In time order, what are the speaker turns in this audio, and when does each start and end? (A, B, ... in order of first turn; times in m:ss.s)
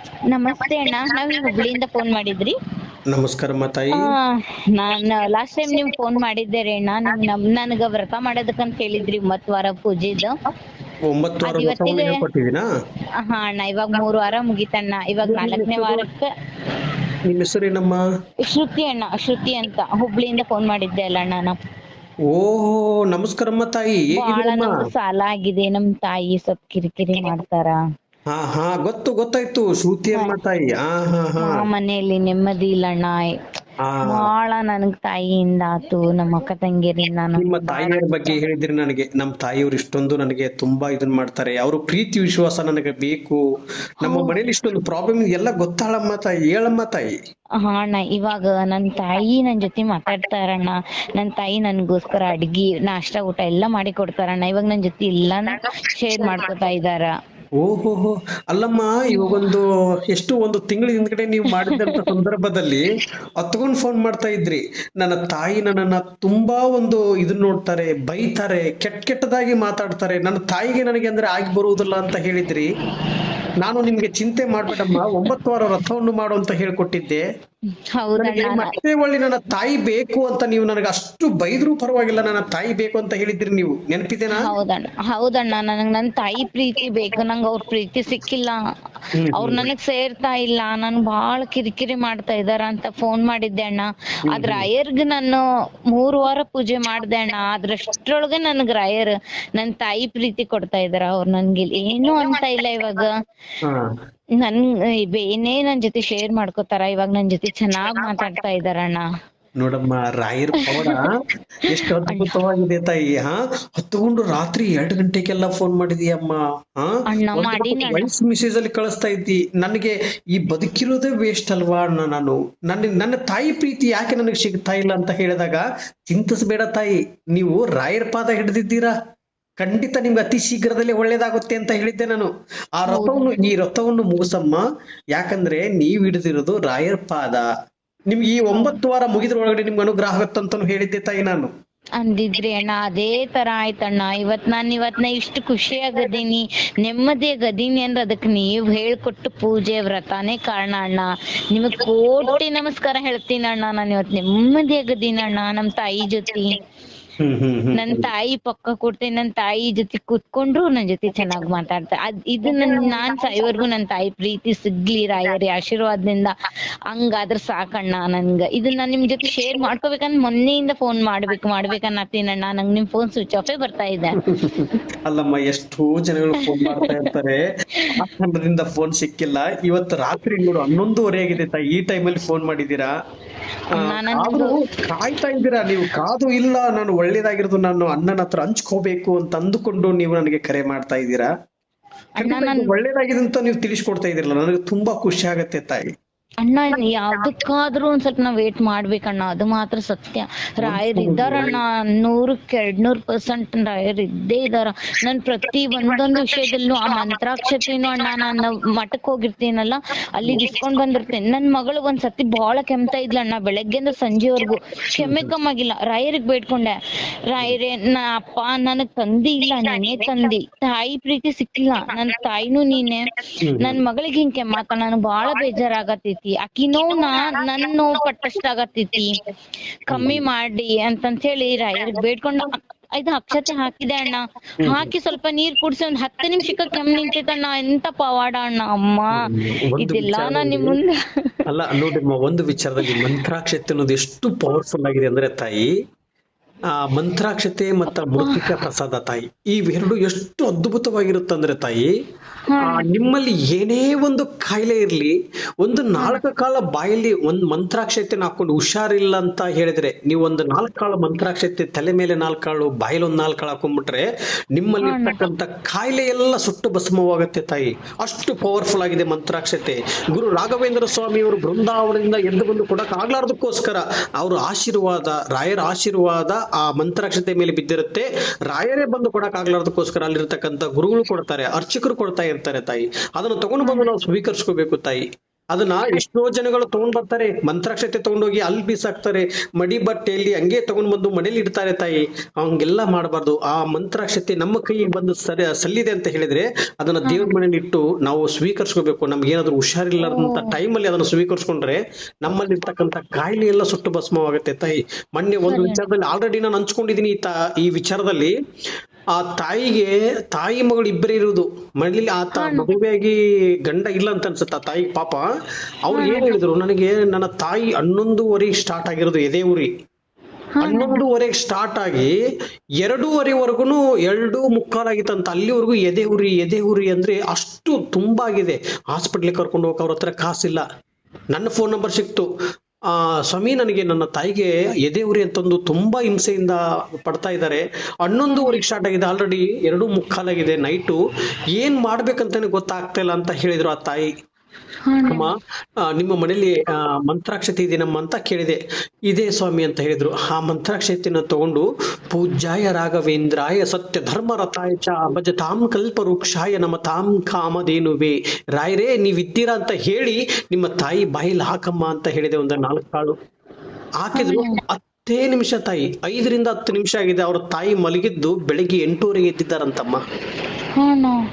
0:00.3-0:02.6 A
0:03.1-0:04.1 B
0:04.0-0:10.4 A
0:11.1-0:12.6 B
0:11.5-0:12.2 A
0:13.2-0:16.3 A
0:15.2-0:16.1 B
0:17.3-0:18.0 B
0:18.4-0:21.6 A
0:22.3-0:24.7 B
0:24.2-0:27.8 A
0:28.3-0:31.6 B
0:31.4-0:33.3 A
0:33.8-0:34.3 B
0:34.1-0:38.4 A
0:37.4-0:43.4 B
0:44.0-0:47.1 B
0:44.1-0:44.3 A
0:47.6-0:57.1 A
0:57.6-1:02.9 B
0:59.1-0:59.4 A
1:01.6-1:02.0 A
1:03.4-1:12.7 B
1:13.6-1:17.2 B
1:14.8-1:15.0 A
1:18.0-1:18.8 A
1:18.2-1:24.5 B
1:24.4-1:28.6 A
1:29.2-1:29.7 B
1:29.4-1:43.2 A
1:34.3-1:34.7 B
1:44.4-1:49.0 A
1:49.6-1:51.1 B
1:50.6-1:51.0 A
1:51.7-2:08.9 B
1:52.1-1:52.3 A
1:57.1-1:58.1 A
2:09.6-2:14.6 B
2:12.9-2:13.4 A
2:15.1-2:17.5 B
2:18.1-2:21.5 B
2:22.0-2:36.6 A
2:37.2-2:38.1 B
2:37.8-2:46.3 A
2:46.9-2:54.2 A
2:54.3-2:57.4 B
2:56.6-2:57.0 A
2:57.9-3:02.9 B
3:03.7-3:04.6 A
3:03.9-3:11.3 B
3:12.2-3:12.7 A
3:12.2-3:15.9 B
3:16.4-3:36.7 A
3:20.6-3:21.6 B
3:35.0-3:35.3 B
3:37.3-3:43.1 A
3:43.4-3:43.8 B
3:43.6-3:49.2 A
3:49.9-3:59.2 A
3:49.9-3:50.3 B
3:54.6-3:54.9 B
3:59.2-4:00.8 B
3:59.8-4:01.4 A
4:01.5-4:05.7 B
4:06.8-4:11.9 B
4:08.2-4:08.6 A
4:12.5-4:12.8 A
4:12.6-4:24.0 B
4:24.6-5:08.3 B
4:24.8-4:25.2 A
4:43.6-4:43.9 A
4:57.0-4:57.3 A
5:00.0-5:00.5 A
5:05.5-5:05.8 A
5:09.1-5:15.2 B
5:12.4-5:12.7 A
5:15.9-5:19.7 B
5:15.9-5:16.3 A
5:20.6-5:21.0 A
5:20.6-5:22.1 B
5:22.8-5:30.6 B
5:31.3-5:32.3 B
5:32.9-5:41.0 B
5:38.3-5:38.6 A
5:41.6-5:44.1 B
5:44.9-5:45.3 A
5:45.9-6:03.2 B
6:04.0-6:10.0 B
6:04.2-6:04.6 A
6:10.8-6:11.2 A